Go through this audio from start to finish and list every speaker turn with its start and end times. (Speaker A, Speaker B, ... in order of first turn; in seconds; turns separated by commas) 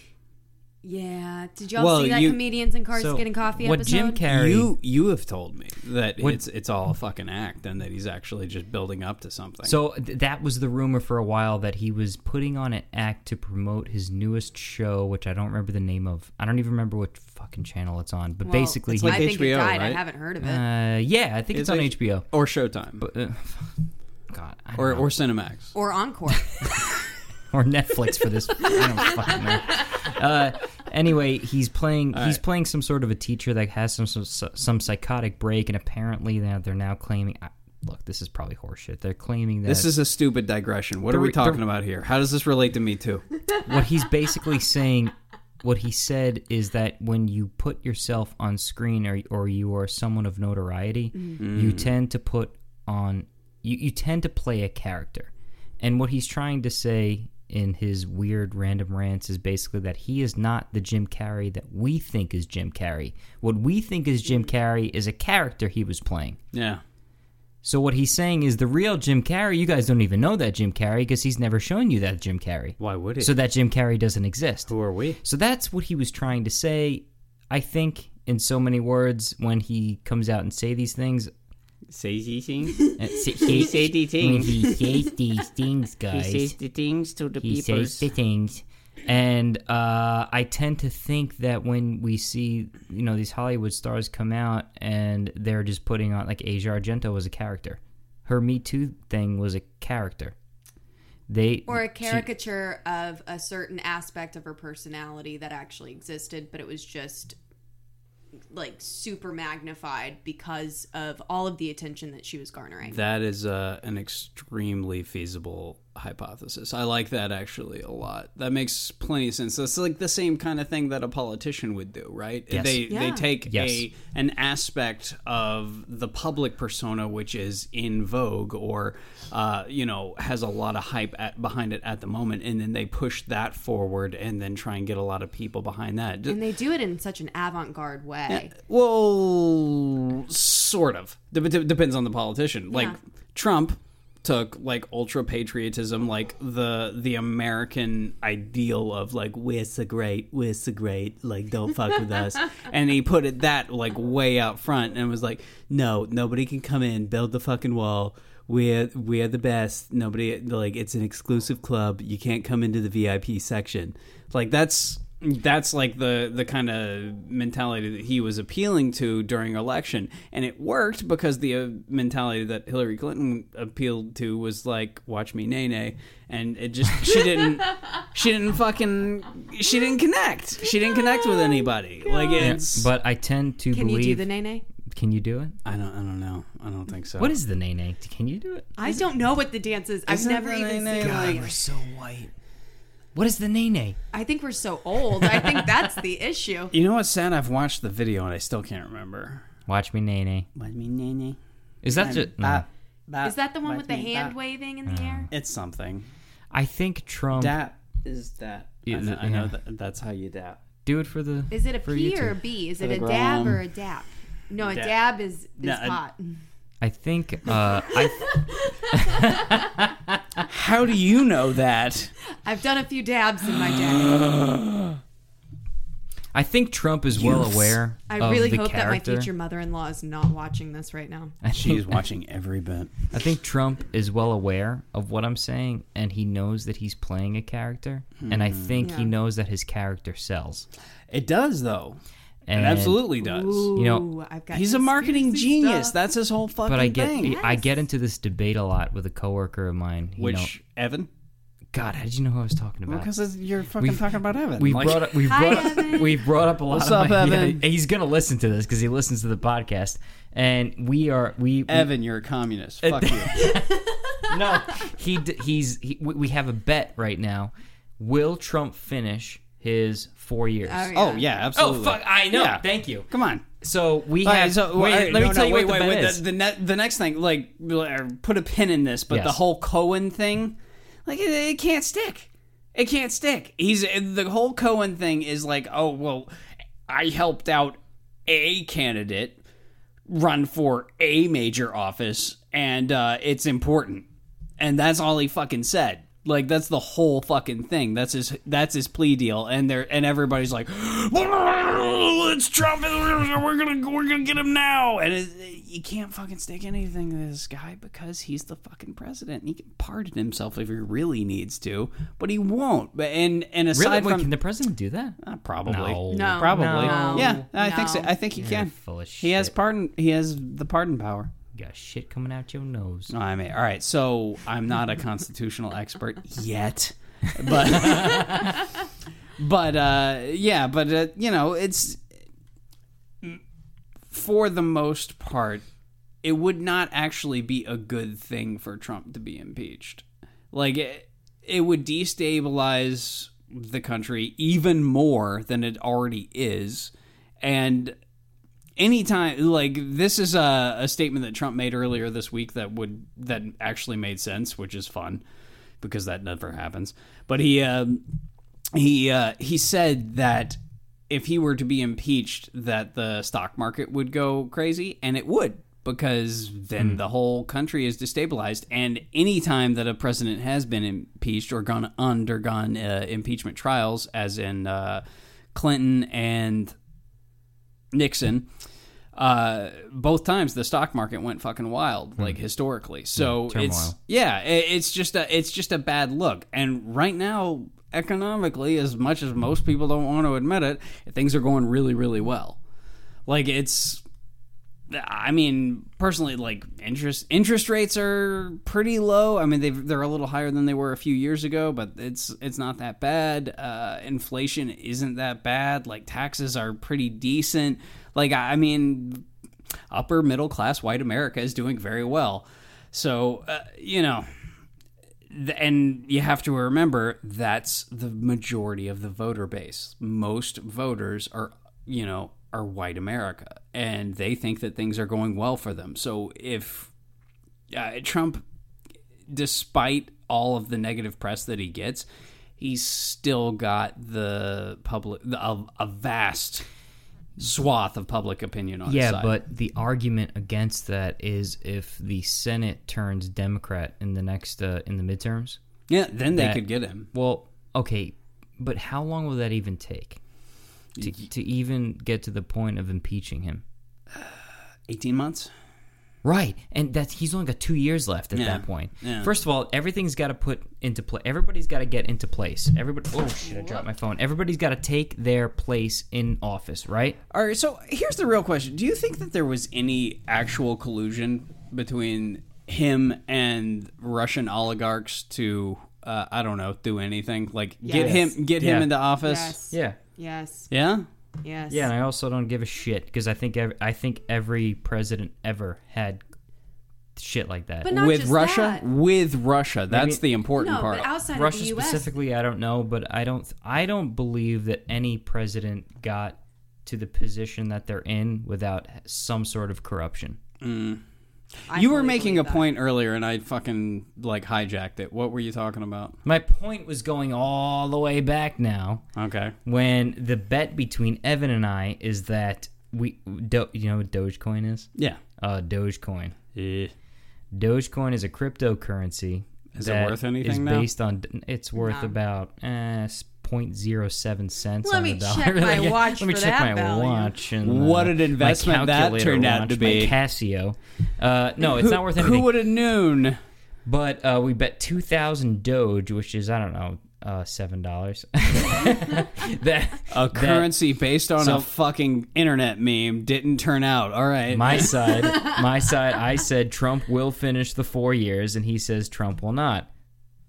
Speaker A: 0.8-4.2, Speaker B: 1.8-2.4, Speaker C: 2.9-4.7, Speaker B: 4.3-9.8, Speaker C: 9.6-19.3, Speaker A: 18.4-20.6, Speaker B: 18.9-20.0, Speaker C: 20.4-22.3, Speaker B: 21.5-23.1, Speaker C: 23.0-25.1, Speaker B: 24.8-25.7, Speaker A: 25.7-26.6, Speaker C: 27.5-39.9, Speaker B: 32.1-32.4, Speaker B: 39.6-43.2, Speaker C: 41.1-41.6, Speaker C: 43.6-66.4, Speaker B: 51.4-51.9, Speaker B: 66.5-66.8, Speaker C: 67.6-81.3, Speaker B: 72.8-73.3, Speaker B: 74.7-75.2, Speaker B: 81.9-83.0, Speaker A: 82.9-83.5, Speaker C: 83.0-86.6, Speaker B: 83.5-84.7, Speaker B: 86.1-88.1, Speaker C: 87.4-100.3, Speaker C: 101.3-102.3, Speaker A: 101.7-107.4, Speaker A: 108.5-113.0, Speaker B: 112.8-136.4, Speaker C: 122.5-123.9, Speaker A: 122.9-123.3, Speaker A: 136.3-138.5, Speaker B: 138.3-182.9, Speaker A: 142.7-143.0, Speaker A: 181.1-182.6, Speaker C: 182.4-184.3, Speaker A: 183.7-184.7, Speaker C: 184.8-185.6, Speaker B: 185.7-187.3, Speaker C: 187.2-189.0, Speaker A: 188.8-191.6, Speaker B: 190.1-191.5, Speaker C: 191.0-192.3, Speaker C: 193.2-194.0, Speaker A: 194.1-196.7, Speaker C: 195.3-195.7, Speaker B: 196.7-199.5, Speaker C: 199.7-200.5, Speaker B: 200.6-201.4, Speaker C: 201.8-202.7, Speaker B: 201.9-204.4, Speaker A: 203.2-205.3, Speaker C: 204.9-205.3, Speaker B: 205.3-206.1, Speaker C: 206.5-207.6, Speaker B: 207.4-210.6, Speaker C: 208.9-209.6, Speaker C: 210.8-212.4, Speaker A: 211.5-216.4, Speaker B: 212.8-213.6, Speaker B: 214.6-215.0, Speaker B: 215.6-216.0, Speaker C: 216.8-220.2, Speaker A: 218.2-219.2, Speaker B: 220.4-222.1, Speaker A: 222.4-224.2, Speaker B: 224.2-224.6, Speaker C: 226.3-229.3, Speaker B: 227.1-227.7, Speaker A: 228.1-231.3, Speaker C: 231.4-232.0, Speaker B: 231.6-233.1, Speaker C: 233.1-240.7, Speaker B: 238.2-238.8, Speaker A: 238.8-239.1, Speaker B: 241.1-243.7, Speaker C: 242.5-243.1, Speaker A: 243.2-246.0, Speaker C: 243.7-244.1, Speaker B: 244.5-247.4, Speaker C: 246.7-250.5, Speaker A: 247.1-247.8, Speaker B: 250.2-251.1, Speaker C: 251.7-253.1, Speaker B: 252.9-255.9, Speaker C: 253.8-261.9, Speaker A: 255.1-256.2, Speaker B: 256.7-257.6, Speaker B: 261.7-263.4, Speaker C: 262.8-270.9, Speaker A: 263.4-264.2, Speaker A: 270.7-271.3, Speaker B: 270.9-273.5, Speaker C: 271.5-273.1, Speaker C: 273.6-276.2, Speaker B: 274.2-286.3, Speaker C: 279.1-279.4, Speaker B: 286.9-289.4, Speaker B: 290.1-294.1, Speaker B: 294.6-314.3, Speaker C: 313.7-317.5, Speaker B: 315.2-321.3, Speaker A: 316.1-318.1, Speaker C: 318.4-319.5, Speaker C: 321.5-323.1, Speaker B: 323.1-328.7, Speaker C: 327.9-328.5, Speaker B: 329.4-332.1, Speaker B: 334.1-335.6, Speaker B: 336.2-348.0, Speaker B: 348.8-355.2, Speaker B: 355.8-358.1, Speaker B: 358.7-375.0, Speaker B: 375.5-376.8, Speaker B: 377.9-378.5, Speaker B: 379.1-392.6, Speaker C: 383.2-384.0, Speaker B: 393.3-394.0, Speaker B: 394.9-409.3, Speaker B: 409.9-414.3, Speaker B: 415.3-426.9, Speaker B: 427.7-428.4, Speaker B: 429.3-432.1, Speaker B: 432.6-436.6, Speaker B: 437.4-439.3, Speaker C: 438.9-445.6, Speaker B: 445.9-447.1, Speaker C: 446.3-450.2, Speaker B: 451.0-451.3, Speaker C: 451.0-453.6, Speaker B: 454.9-455.5, Speaker C: 456.2-467.2, Speaker B: 458.3-459.3, Speaker A: 463.5-463.9, Speaker B: 467.3-479.6, Speaker A: 477.8-478.3, Speaker C: 477.9-478.9, Speaker A: 479.2-480.7, Speaker C: 479.7-480.0, Speaker B: 480.7-481.1, Speaker A: 481.4-481.9, Speaker C: 481.7-486.2, Speaker C: 487.2-487.9, Speaker A: 487.8-488.9, Speaker B: 487.9-491.1, Speaker C: 489.9-490.2, Speaker A: 490.6-492.1, Speaker C: 491.3-500.4, Speaker B: 500.6-501.0, Speaker B: 501.6-506.2, Speaker A: 501.7-502.7, Speaker C: 506.2-509.0, Speaker B: 509.1-509.6, Speaker C: 509.6-516.4, Speaker B: 516.5-516.9, Speaker C: 517.5-532.5, Speaker B: 519.7-520.9, Speaker A: 521.8-522.1, Speaker A: 524.8-527.4, Speaker B: 527.6-530.2, Speaker B: 531.6-533.4, Speaker C: 533.9-540.7, Speaker B: 540.1-545.0, Speaker C: 541.4-541.7, Speaker C: 544.5-549.9